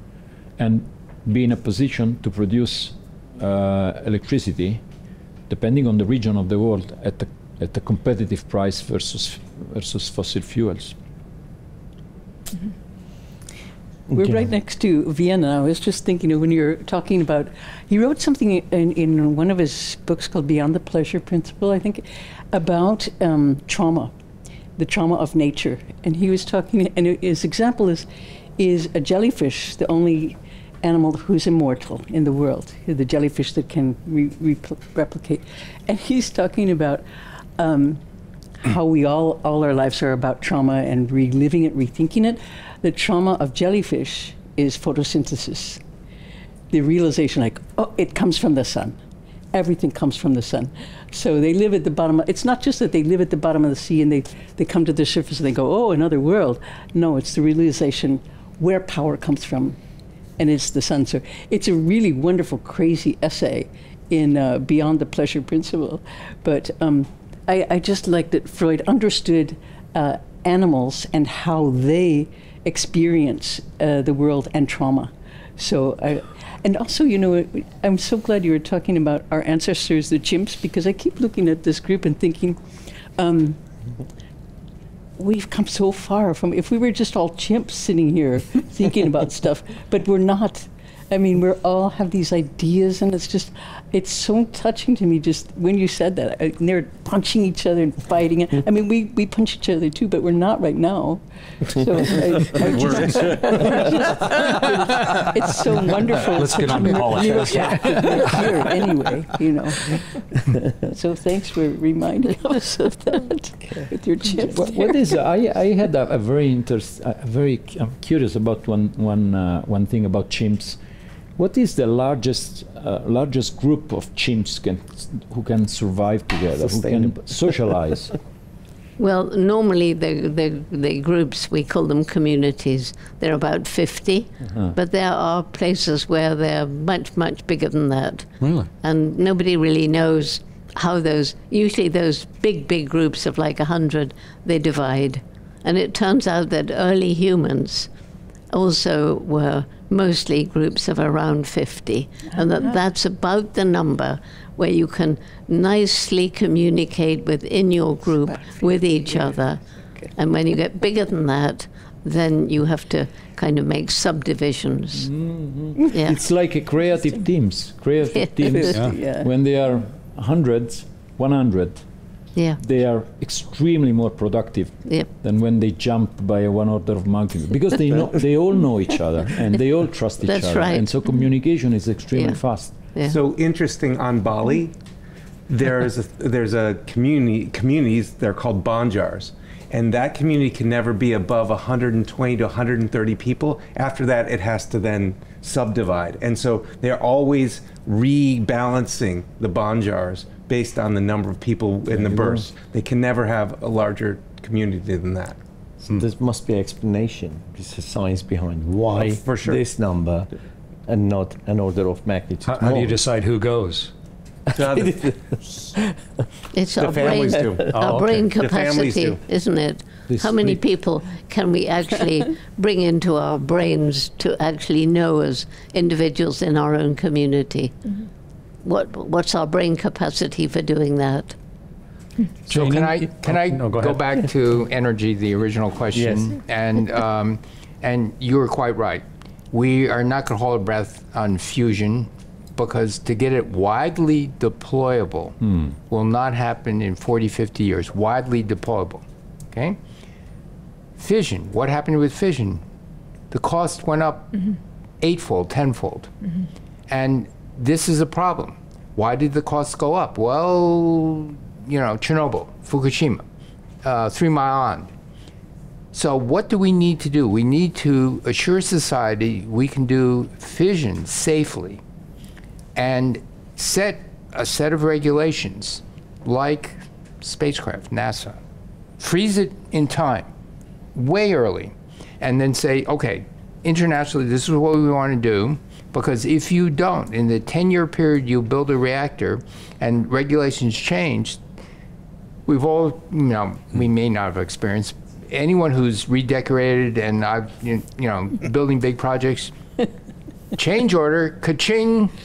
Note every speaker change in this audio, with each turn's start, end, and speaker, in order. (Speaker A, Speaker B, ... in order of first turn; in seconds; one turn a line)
Speaker A: 0.6-4.8
Speaker A: 5.5-10.9
Speaker B: 14.1-24.1
Speaker B: 24.8-28.1
Speaker B: 28.6-37.0
Speaker B: 37.6-38.0
Speaker B: 38.6-45.8
Speaker B: 46.7-49.0
Speaker B: 49.5-59.8
Speaker B: 60.4-82.6
Speaker B: 83.2-83.6
Speaker B: 85.2-115.1
Speaker C: 102.5-103.9
Speaker D: 106.2-108.5
Speaker A: 114.5-120.8
Speaker A: 121.4-128.2
Speaker E: 126.6-127.8
Speaker F: 129.0-138.3
Speaker D: 138.4-138.7
Speaker F: 138.8-147.9
Speaker F: 148.5-159.6
Speaker B: 158.5-159.3
Speaker F: 160.1-165.1
Speaker A: 165.0-171.8
Speaker F: 165.9-166.2
Speaker B: 168.5-169.3
Speaker D: 168.7-169.0
Speaker F: 172.3-172.6
Speaker A: 172.6-182.8
Speaker F: 180.2-181.0
Speaker F: 182.1-183.2
Speaker C: 183.0-184.7
Speaker C: 185.5-205.4
Speaker A: 201.9-202.3
Speaker E: 205.9-210.3
Speaker C: 208.9-209.6
Speaker E: 210.9-212.9
Speaker D: 212.5-213.9
Speaker C: 214.5-215.1
Speaker E: 214.6-215.8
Speaker F: 216.5-227.8
Speaker C: 216.8-219.2
Speaker D: 217.7-218.2
Speaker A: 220.2-220.6
Speaker F: 228.6-231.4
Speaker D: 232.5-234.1
Speaker G: 232.5-245.4
Speaker E: 235.9-236.2
Speaker G: 245.9-249.8
Speaker G: 251.0-252.6
Speaker G: 253.3-254.4
Speaker G: 255.0-256.1
Speaker G: 256.9-263.2
Speaker G: 263.8-264.9
Speaker G: 265.9-271.8
Speaker G: 272.7-278.4
Speaker G: 279.0-280.3
Speaker G: 280.9-291.4
Speaker G: 292.4-299.5
Speaker G: 300.6-302.1